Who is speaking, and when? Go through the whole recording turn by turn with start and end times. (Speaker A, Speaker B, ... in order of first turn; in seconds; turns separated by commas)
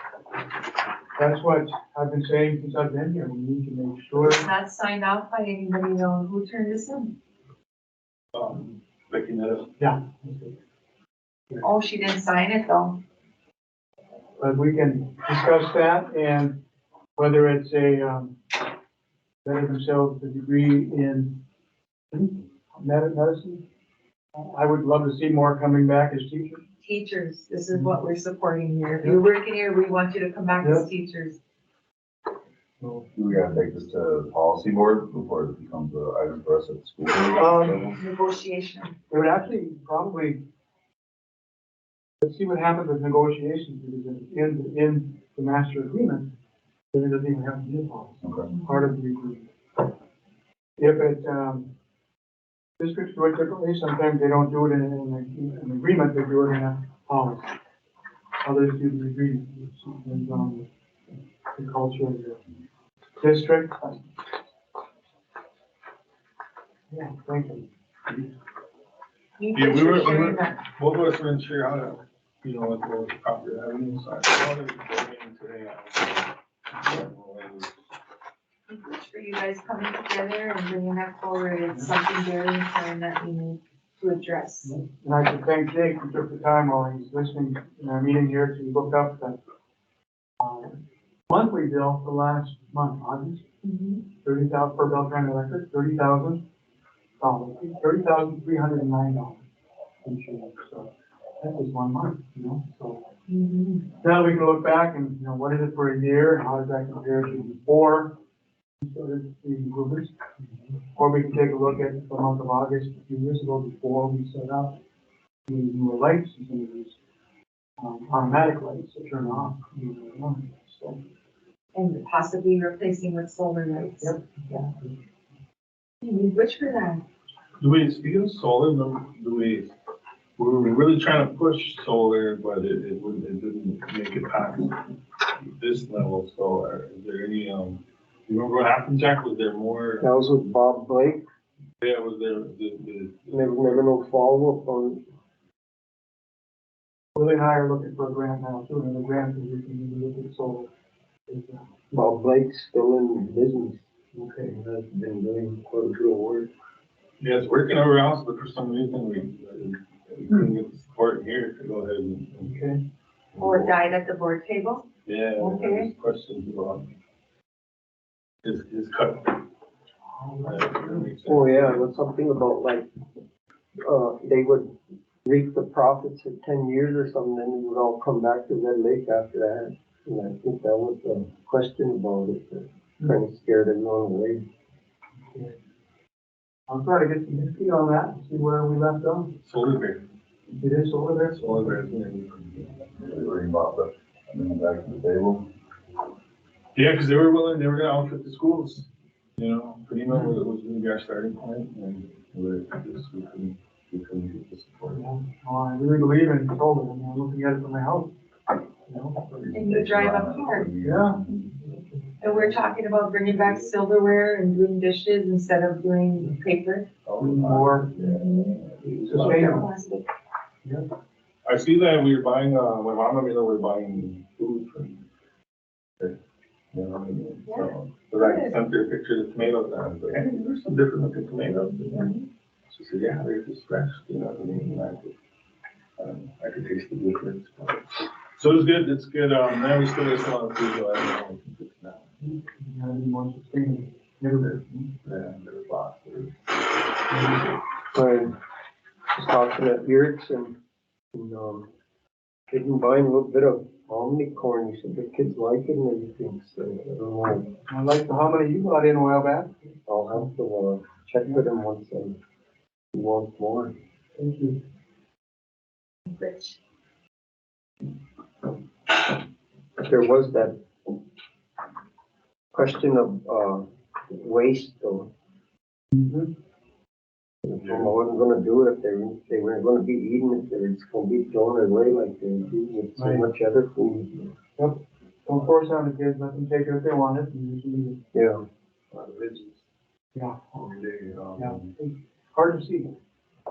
Speaker A: 1.1-4.5, Speaker B: 4.2-7.1, Speaker C: 8.3-9.7, Speaker A: 9.8-10.5, Speaker B: 11.6-13.0, Speaker A: 14.4-16.6, Speaker A: 17.2-18.4, Speaker A: 19.4-21.4, Speaker A: 22.1-23.6, Speaker A: 24.3-26.6, Speaker B: 26.8-31.4, Speaker A: 30.6-30.9, Speaker A: 32.8-33.4, Speaker D: 33.1-38.0, Speaker A: 37.4-37.8, Speaker B: 37.6-38.9, Speaker A: 39.1-40.4, Speaker A: 42.2-46.3, Speaker A: 46.9-49.5, Speaker D: 48.2-48.5, Speaker A: 50.8-51.7, Speaker A: 52.8-57.5, Speaker A: 58.4-60.7, Speaker A: 61.5-62.4, Speaker A: 63.2-64.0, Speaker A: 66.9-68.3, Speaker B: 69.4-70.6, Speaker C: 69.5-77.7, Speaker B: 78.7-84.8, Speaker A: 84.6-89.4, Speaker A: 90.4-93.4, Speaker B: 93.6-94.0, Speaker A: 94.2-96.4, Speaker A: 97.2-99.4, Speaker A: 100.0-103.0, Speaker B: 103.3-103.9, Speaker A: 104.0-108.2, Speaker A: 108.8-110.3, Speaker A: 110.9-114.8, Speaker A: 115.5-117.0, Speaker A: 117.8-121.0, Speaker B: 121.7-124.7, Speaker A: 124.0-124.9, Speaker B: 126.0-127.0, Speaker C: 127.6-129.7, Speaker C: 130.4-140.0, Speaker E: 140.0-141.2, Speaker C: 141.8-143.9, Speaker E: 143.3-145.0, Speaker A: 147.1-150.7, Speaker A: 151.3-151.6, Speaker E: 151.9-156.5, Speaker C: 157.2-162.6, Speaker A: 162.4-162.8, Speaker C: 163.3-163.7, Speaker B: 163.4-165.9, Speaker C: 165.0-166.9, Speaker C: 168.4-169.4, Speaker A: 170.1-171.1, Speaker C: 170.4-171.8, Speaker E: 171.2-172.9, Speaker E: 173.8-174.7, Speaker E: 175.2-184.4, Speaker A: 186.7-189.4, Speaker C: 189.4-190.1, Speaker A: 190.5-191.4, Speaker C: 191.3-192.9, Speaker D: 192.9-195.5, Speaker C: 196.7-205.0, Speaker A: 204.9-208.1, Speaker A: 208.8-209.5, Speaker D: 209.3-211.5, Speaker B: 209.5-210.7, Speaker A: 210.8-212.6, Speaker B: 212.2-216.9, Speaker C: 217.1-219.6, Speaker A: 217.2-217.9, Speaker B: 218.0-220.1, Speaker A: 219.1-219.7, Speaker C: 221.4-225.0, Speaker C: 226.7-232.1, Speaker B: 227.5-228.6, Speaker B: 231.9-232.3, Speaker C: 232.7-235.1, Speaker C: 236.0-242.1, Speaker A: 242.2-244.8, Speaker C: 244.4-246.4, Speaker A: 247.1-247.4, Speaker E: 247.9-248.4, Speaker E: 249.1-250.6, Speaker E: 251.1-251.7, Speaker E: 252.5-257.5, Speaker A: 257.7-259.7, Speaker E: 259.9-262.1, Speaker E: 262.9-263.7, Speaker A: 264.2-264.6, Speaker B: 266.1-266.6, Speaker E: 269.8-270.9, Speaker E: 272.5-275.1, Speaker A: 275.9-276.3, Speaker E: 277.4-284.3, Speaker A: 282.9-283.3, Speaker A: 284.6-288.0, Speaker E: 288.1-288.4, Speaker C: 288.9-289.6, Speaker A: 290.1-290.4, Speaker C: 290.5-291.7, Speaker A: 291.4-292.9